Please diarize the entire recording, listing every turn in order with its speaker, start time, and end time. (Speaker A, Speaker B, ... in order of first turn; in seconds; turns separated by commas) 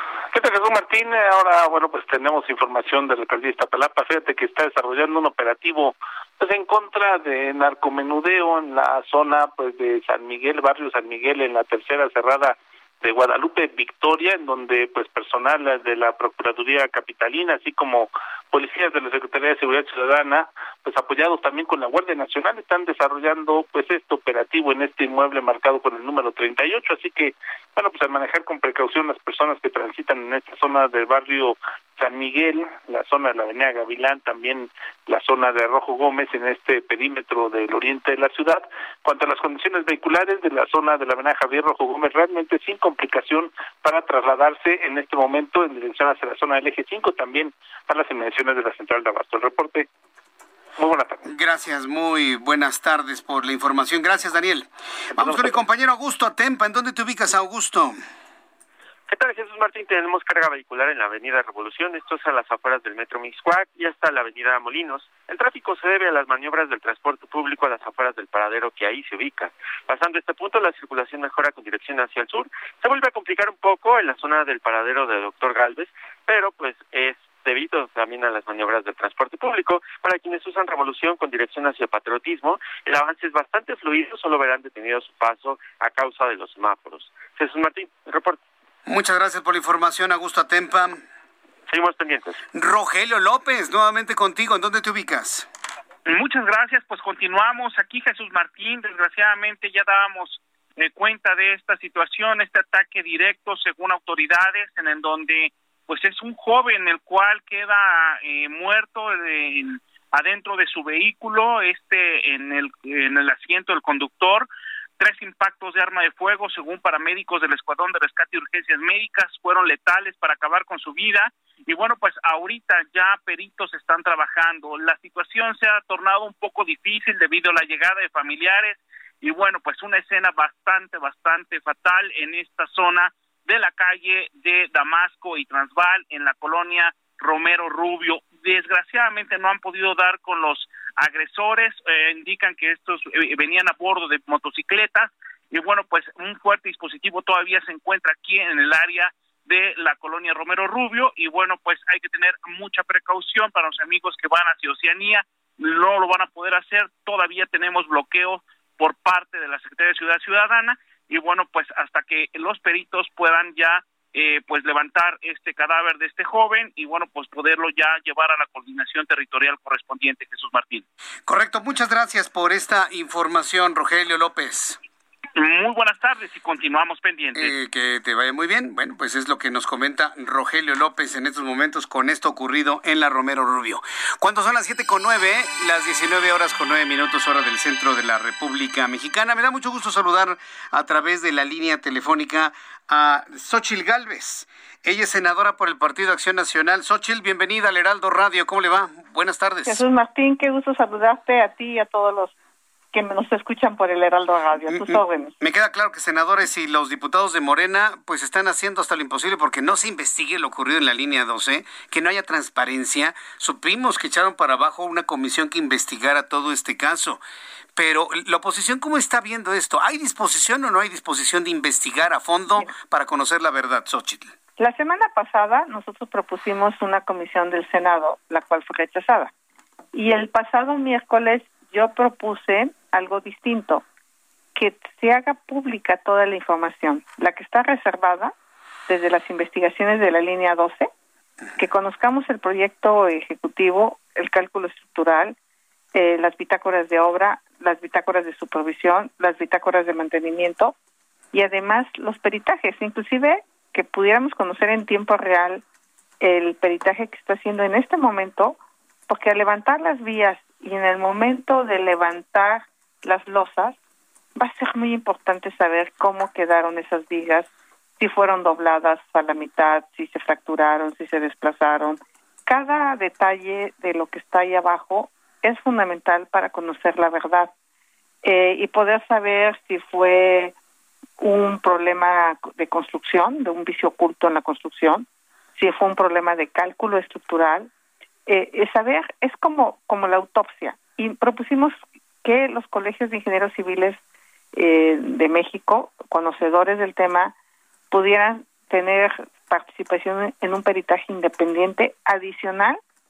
Speaker A: 0.3-49.9, Speaker A: 50.8-51.3, Speaker B: 51.2-58.0, Speaker A: 55.2-55.5, Speaker C: 59.1-88.4, Speaker B: 88.9-91.0, Speaker C: 91.7-92.4, Speaker B: 92.5-95.5, Speaker D: 96.1-114.5, Speaker D: 115.0-170.8, Speaker B: 171.3-174.8, Speaker D: 175.4-177.5, Speaker B: 177.3-199.8, Speaker E: 199.7-202.3, Speaker E: 202.9-205.3, Speaker B: 204.7-217.2, Speaker B: 217.8-224.3, Speaker E: 224.6-229.3, Speaker E: 229.9-233.8, Speaker E: 234.6-238.3, Speaker E: 238.9-240.9, Speaker E: 241.6-245.4, Speaker E: 245.9-250.8, Speaker E: 251.3-255.6, Speaker E: 256.2-258.6, Speaker E: 259.1-263.8, Speaker E: 264.4-277.5, Speaker E: 278.2-280.5, Speaker E: 281.2-285.1, Speaker E: 285.6-287.7, Speaker E: 288.3-294.0, Speaker E: 294.5-297.3, Speaker E: 297.9-302.8